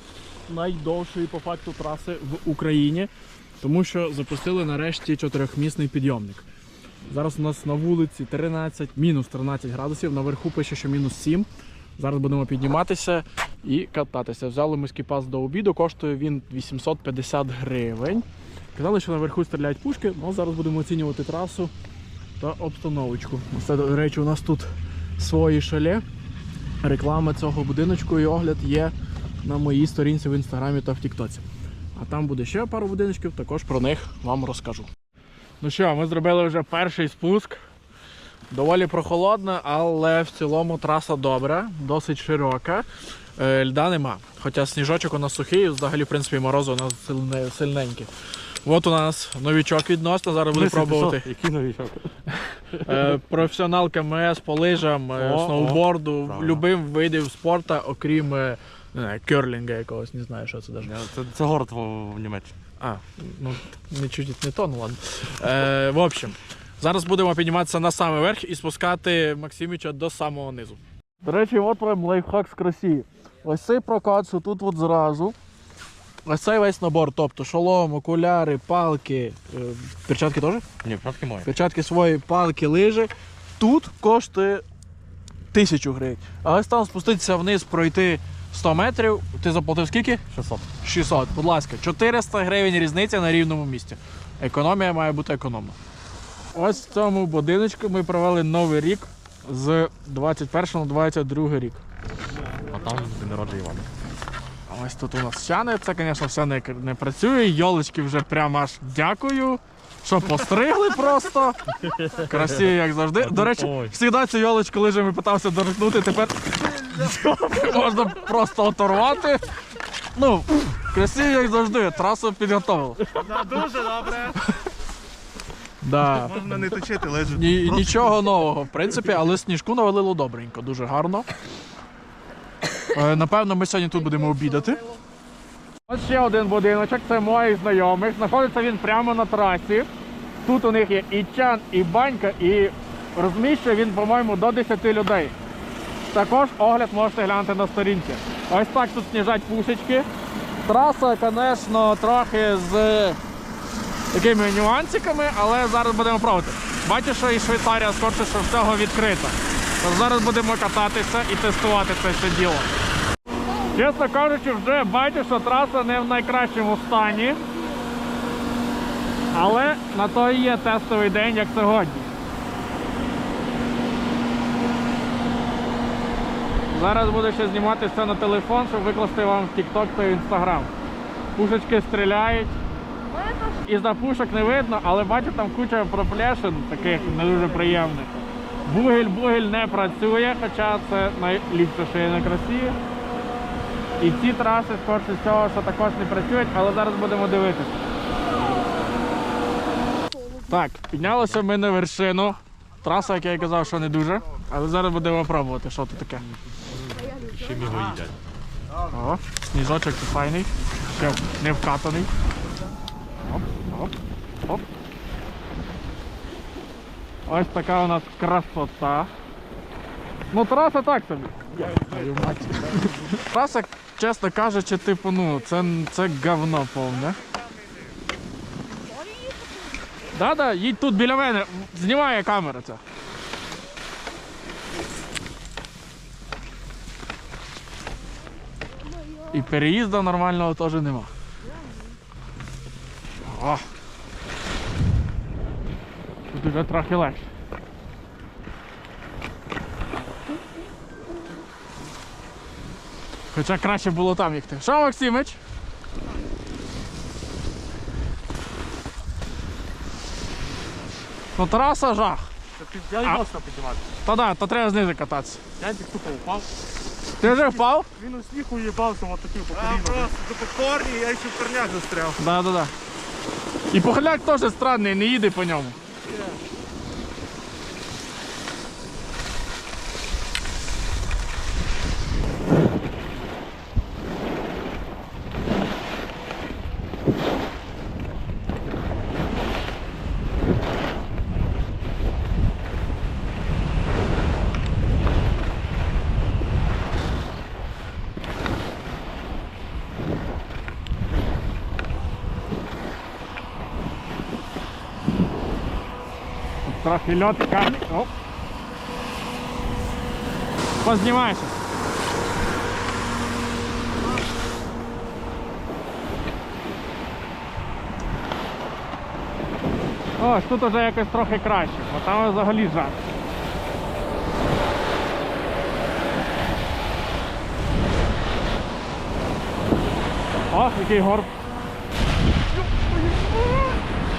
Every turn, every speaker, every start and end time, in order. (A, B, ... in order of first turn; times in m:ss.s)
0:00.4-0:03.1 A
0:03.6-0:06.4 A
0:07.1-0:21.7 A
0:22.4-0:26.0 A
0:26.8-0:34.9 A
0:35.6-0:37.6 A
0:38.5-0:48.1 A
0:48.6-0:51.3 A
0:50.5-0:52.0 B
0:52.3-1:00.9 A
0:55.2-0:56.6 B
1:00.8-1:02.5 B
1:02.8-1:15.4 A
1:16.2-1:20.6 A
1:20.8-1:21.5 B
1:21.4-1:24.6 A
1:25.5-1:30.2 A
1:30.3-1:30.6 B
1:30.8-1:35.8 A
1:36.5-1:41.8 A
1:42.7-1:43.9 B
1:44.7-1:59.5 A
1:51.9-1:52.3 B
1:53.2-1:53.9 B
2:00.1-2:03.1 A
2:03.1-2:04.4 C
2:05.8-2:06.4 A
2:06.1-2:08.0 C
2:07.3-2:11.3 A
2:12.8-2:14.9 A
2:15.9-2:19.9 A
2:20.4-2:25.3 A
2:26.1-2:30.1 A
2:30.6-2:33.2 A
2:34.1-2:42.7 A
2:43.6-2:47.5 A
2:49.3-2:52.1 A
2:56.7-3:00.7 A
3:01.3-3:02.5 A
3:03.4-3:12.8 A
3:14.0-3:17.8 A
3:20.4-3:26.2 A
3:27.0-3:28.1 B
3:28.8-3:32.1 A
3:33.3-3:33.9 A
3:37.2-3:39.1 A
3:40.3-3:47.2 A
3:50.1-3:52.8 A
3:59.2-4:01.1 A
4:03.2-4:03.6 A
4:06.3-4:07.3 A
4:13.3-4:15.4 A
4:21.3-4:22.3 A
4:22.6-4:23.8 B
4:24.0-4:25.4 A
4:25.6-4:26.5 B
4:27.2-4:27.9 A
4:27.9-4:30.0 B
4:29.5-4:32.2 C
4:32.2-4:32.7 A
4:33.7-4:35.8 A
4:36.0-4:36.3 C
5:06.6-5:08.1 A
5:10.8-5:11.6 A
5:20.2-5:23.0 A
5:30.5-5:31.3 A